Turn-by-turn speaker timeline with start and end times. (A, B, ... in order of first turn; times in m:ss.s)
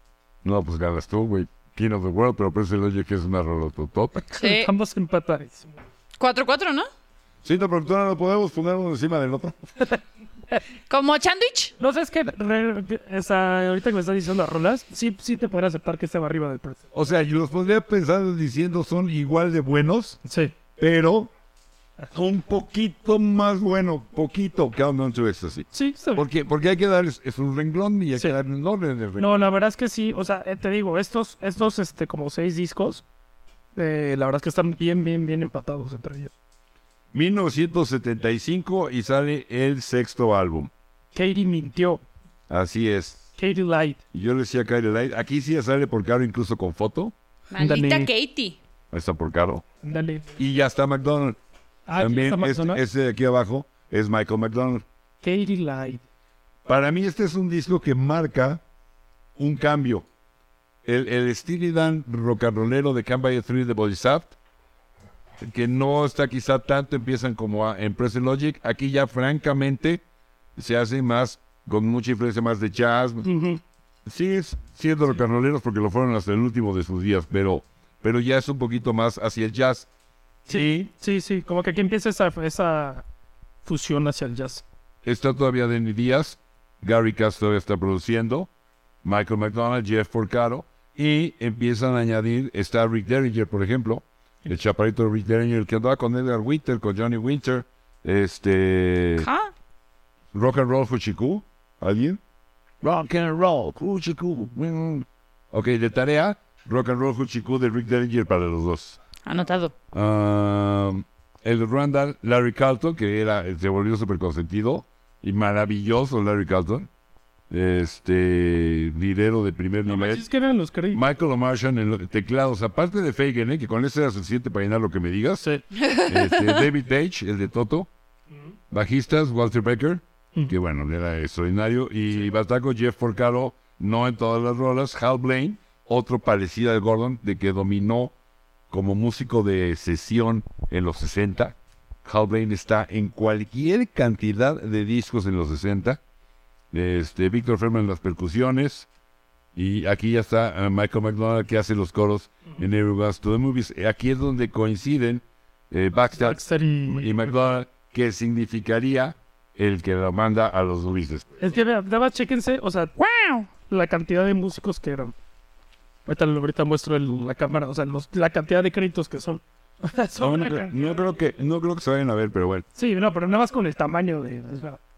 0:00.4-0:04.2 A
0:04.3-0:05.7 B
0:04.4-0:04.7 C
0:06.2-0:06.9 C
0:07.4-0:09.6 A
0:10.9-0:11.7 C
0:11.8-0:16.8 B
0:16.9-0:20.2 A
0:20.2-0:20.5 B
0:20.8-0:21.3 A
0:22.1-0:29.3 A
0:25.7-0:26.2 B
0:29.2-0:33.0 B
0:33.8-0:36.3 B
0:37.1-0:40.7 A
0:41.1-0:42.0 B
0:42.5-0:43.2 A
0:43.4-0:44.0 B
0:44.1-0:47.1 A
0:47.5-0:48.6 C
0:47.6-0:48.1 B
0:48.9-0:49.6 A
0:49.8-0:50.3 B
0:50.4-0:51.4 A
0:51.9-0:52.8 B
0:52.0-0:54.8 A
0:55.2-0:56.0 B
0:56.7-0:58.6 A
0:59.4-1:00.1 A
1:00.8-1:04.4 A
1:05.4-1:10.0 A
1:10.6-1:13.3 A
1:13.2-1:13.6 B
1:14.1-1:19.9 A
1:20.5-1:20.9 A
1:20.5-1:23.0 B
1:23.6-1:24.6 B
1:25.0-1:28.5 A
1:29.0-1:39.3 A
1:39.2-1:39.5 C
1:40.3-1:42.2 A
1:42.8-1:49.0 A
1:49.3-1:49.7 C
1:49.9-1:56.9 A
1:57.5-2:00.2 A
1:59.9-2:01.0 B
2:00.9-2:05.5 A
2:05.8-2:06.7 C
2:06.0-2:07.9 A
2:08.7-2:18.1 A
2:18.7-2:26.0 A
2:26.7-2:28.9 A
2:29.6-2:41.3 A
2:36.2-2:37.3 B
2:41.4-2:43.0 B
2:43.0-2:43.5 C
2:43.5-2:45.1 B
2:46.1-2:50.9 B
2:50.2-2:52.6 A
2:52.8-2:54.8 B